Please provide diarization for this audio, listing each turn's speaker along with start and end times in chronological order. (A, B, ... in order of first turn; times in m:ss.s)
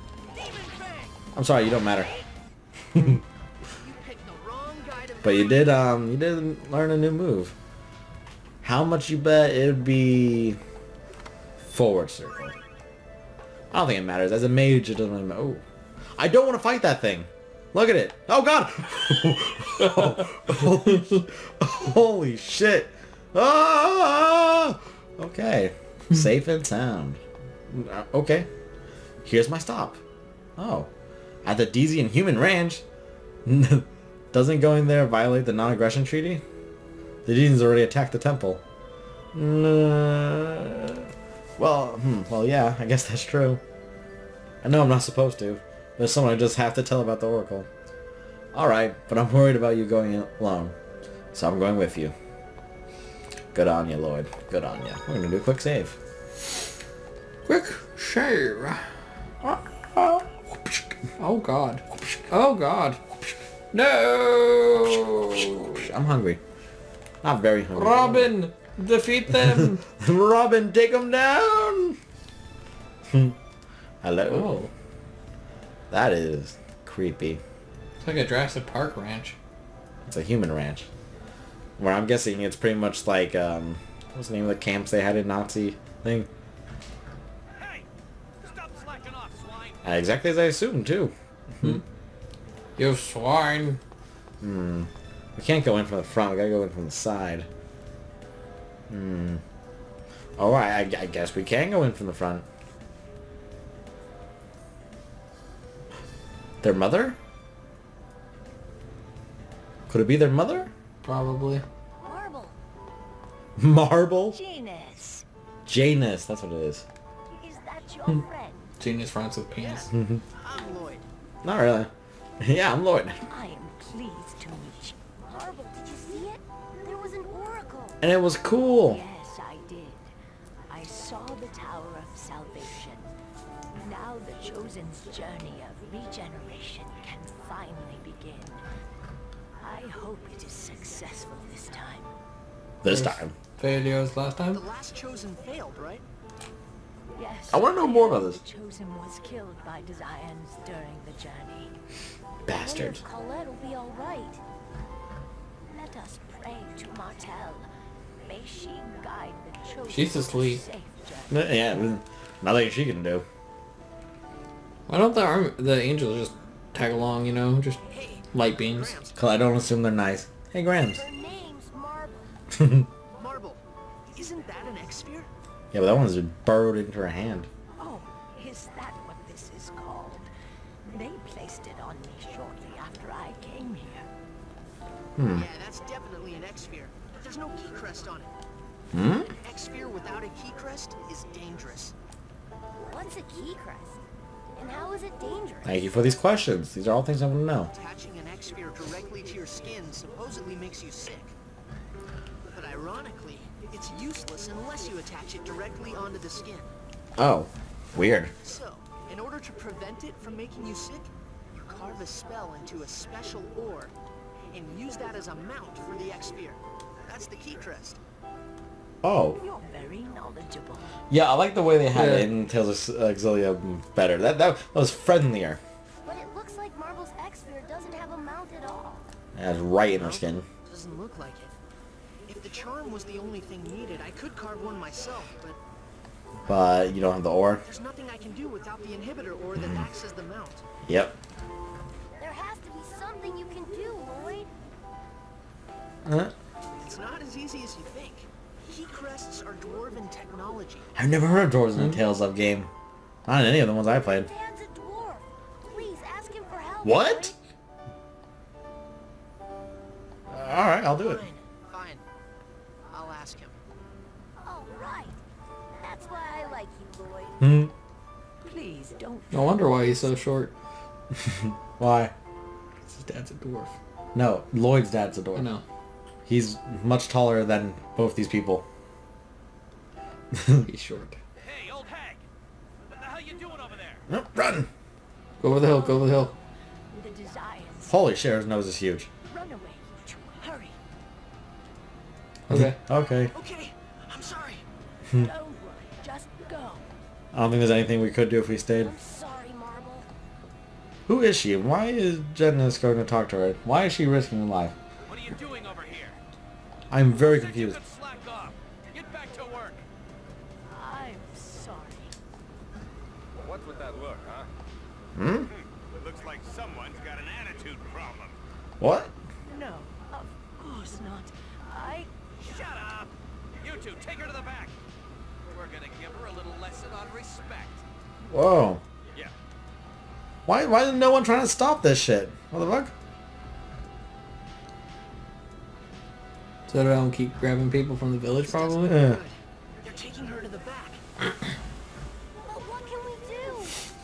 0:00.3-0:01.2 A
0:01.4-0:02.1 B
0:02.9-0:03.2 B
0:03.8-0:05.8 A
0:05.2-0:07.5 B
0:08.6-0:10.6 B
0:11.6-0:12.6 B
0:13.7-0:15.6 B
0:16.2-0:28.5 B
0:29.2-0:30.0 B
0:30.6-0:30.9 B
0:31.4-0:32.8 B
0:33.4-0:36.4 B
0:37.3-0:38.6 B
0:39.3-0:43.6 B
0:44.6-0:47.7 B
0:48.5-0:50.8 B
0:51.3-0:52.1 B
0:53.5-0:56.0 B
0:57.5-0:58.8 C
0:59.4-1:00.4 B
1:01.2-1:03.0 C
1:03.7-1:05.8 C
1:05.4-1:06.4 B
1:07.2-1:08.4 B
1:07.8-1:09.8 C
1:09.5-1:12.0 B
1:13.1-1:13.4 B
1:14.0-1:14.6 B
1:14.3-1:14.7 C
1:15.9-1:17.4 B
1:18.0-1:19.4 C
1:20.1-1:20.9 B
1:21.8-1:26.3 B
1:27.6-1:27.9 D
1:28.4-1:29.8 D
1:29.8-1:31.8 B
1:32.8-1:33.8 C
1:34.4-1:37.5 B
1:38.9-1:39.4 B
1:40.4-1:42.4 B
1:46.6-1:47.2 B
1:49.9-1:50.7 B
1:51.0-1:51.6 C
1:52.0-1:52.5 E
1:52.1-1:52.5 F
1:53.6-1:54.4 B
1:54.3-1:55.2 E
1:55.7-1:56.8 B
1:57.4-1:58.7 E
1:58.8-1:59.9 C
1:59.5-2:01.1 A
1:59.9-2:00.2 B
2:01.4-2:03.2 B
2:03.3-2:05.0 E
2:05.3-2:08.0 F
2:08.0-2:09.0 B
2:08.8-2:10.1 E
2:10.7-2:13.1 E
2:13.8-2:18.6 E
2:19.6-2:22.1 E
2:22.8-2:23.3 B
2:22.9-2:24.6 C
2:24.5-2:26.0 A
2:27.2-2:31.8 E
2:27.5-2:28.4 B
2:32.5-2:33.0 B
2:32.6-2:34.3 F
2:33.6-2:34.4 E
2:35.7-2:37.7 E
2:38.2-2:41.4 E
2:39.9-2:40.6 C
2:41.3-2:43.3 B
2:44.9-2:49.0 C
2:47.9-2:49.2 A
2:49.2-2:51.0 B
2:50.9-2:52.3 F
2:52.5-2:52.9 B
2:53.2-2:55.3 A
2:55.7-2:57.5 B
2:57.8-3:00.3 E
3:00.9-3:04.1 E
3:05.2-3:05.5 B
3:05.3-3:08.3 A
3:08.9-3:09.3 B
3:09.4-3:11.9 A
3:12.8-3:14.0 F
3:14.6-3:16.0 F
3:15.6-3:17.7 B
3:17.7-3:21.4 A
3:22.5-3:26.7 A
3:27.2-3:28.3 B
3:28.4-3:33.9 A
3:34.5-3:38.0 A
3:39.0-3:39.4 B
3:39.4-3:40.9 E
3:41.1-3:45.6 B
3:41.9-3:42.3 C
3:46.0-3:49.1 F
3:49.4-3:50.5 B
3:49.9-3:51.6 A
3:52.3-3:55.6 A
3:56.5-3:57.6 B
3:57.6-4:00.6 A
3:59.6-3:59.9 B
4:00.8-4:01.2 B
4:02.2-4:04.5 F
4:06.1-4:06.3 B
4:06.8-4:10.9 A
4:11.0-4:12.7 B
4:13.3-4:14.3 B
4:14.0-4:17.4 F
4:16.8-4:17.4 B
4:20.3-4:21.2 B
4:20.9-4:22.0 A
4:22.9-4:23.6 A
4:24.4-4:25.2 F
4:25.8-4:27.4 F
4:27.4-4:27.7 B
4:28.4-4:30.1 E
4:29.3-4:30.5 C
4:31.2-4:32.1 B
4:32.9-4:33.8 C
4:34.2-4:35.5 B
4:35.4-4:35.6 C
4:36.3-4:38.6 B
4:40.3-4:40.7 B
4:40.6-4:41.2 C
4:41.4-4:42.2 D
4:42.9-4:44.0 D
4:44.1-4:44.7 B
4:45.4-4:46.3 C
4:45.5-4:46.4 E
4:46.9-4:48.0 E
4:47.9-4:49.1 B
4:49.3-4:50.8 E
4:52.5-4:52.8 C
4:52.5-4:53.4 B
4:53.3-4:54.6 A
4:55.1-4:56.9 E
4:57.3-4:58.9 B
4:58.8-5:00.1 F
5:01.1-5:04.8 B
5:05.0-5:06.2 D
5:06.9-5:07.8 B
5:07.1-5:09.8 D
5:10.7-5:12.2 E
5:13.4-5:14.5 D
5:15.2-5:15.5 B
5:15.5-5:18.4 D
5:18.8-5:19.1 B
5:19.5-5:22.1 E
5:22.4-5:24.8 D
5:25.5-5:27.8 D
5:28.3-5:28.8 B
5:30.5-5:32.9 B
5:36.7-5:39.1 C
5:38.4-5:41.0 A
5:38.9-5:39.2 B
5:42.4-5:43.8 F